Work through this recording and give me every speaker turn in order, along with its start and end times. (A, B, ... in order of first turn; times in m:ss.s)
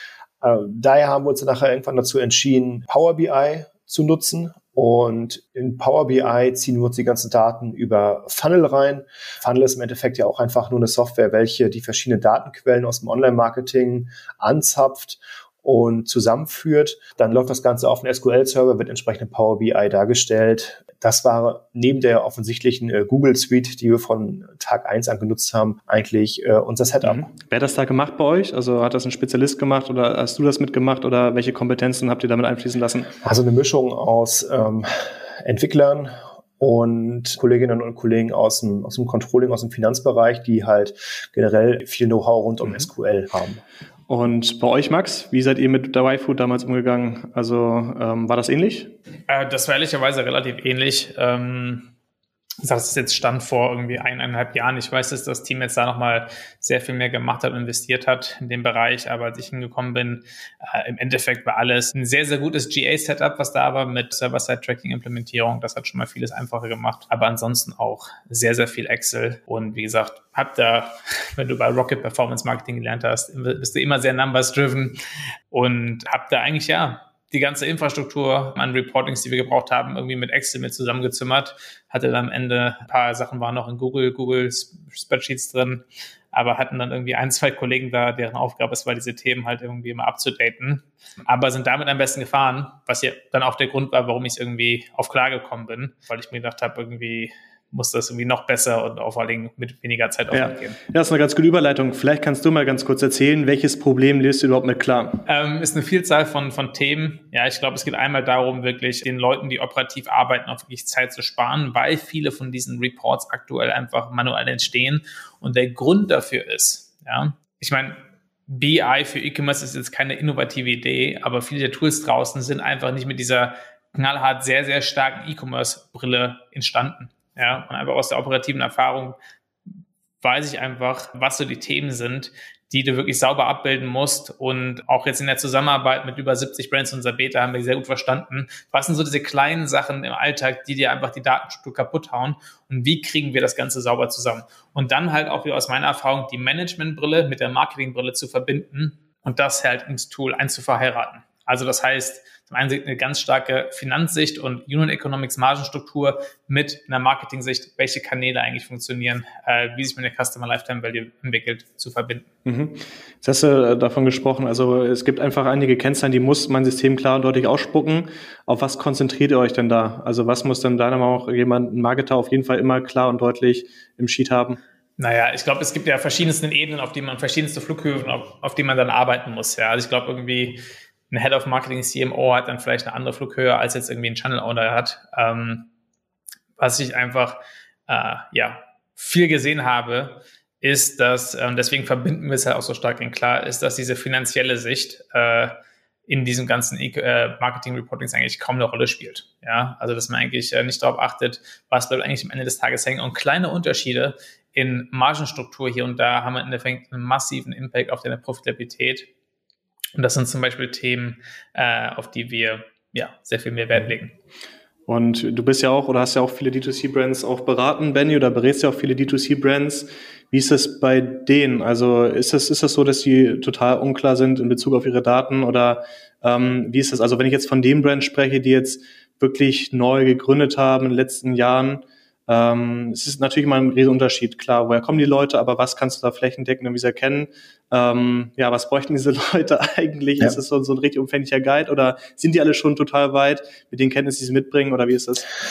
0:00.4-0:27.2 A
0:27.0-0:33.1 B
0:33.2-0:43.6 A
0:44.1-0:48.9 B
0:49.3-0:51.9 C
0:52.6-1:15.0 C
1:15.5-1:40.8 C
1:40.3-1:45.2 B
1:45.3-2:09.2 C
2:10.2-2:42.3 C
2:42.4-2:54.6 B
2:55.0-3:05.7 C
3:06.6-3:29.1 C
3:30.0-3:34.1 C
3:34.9-4:05.3 B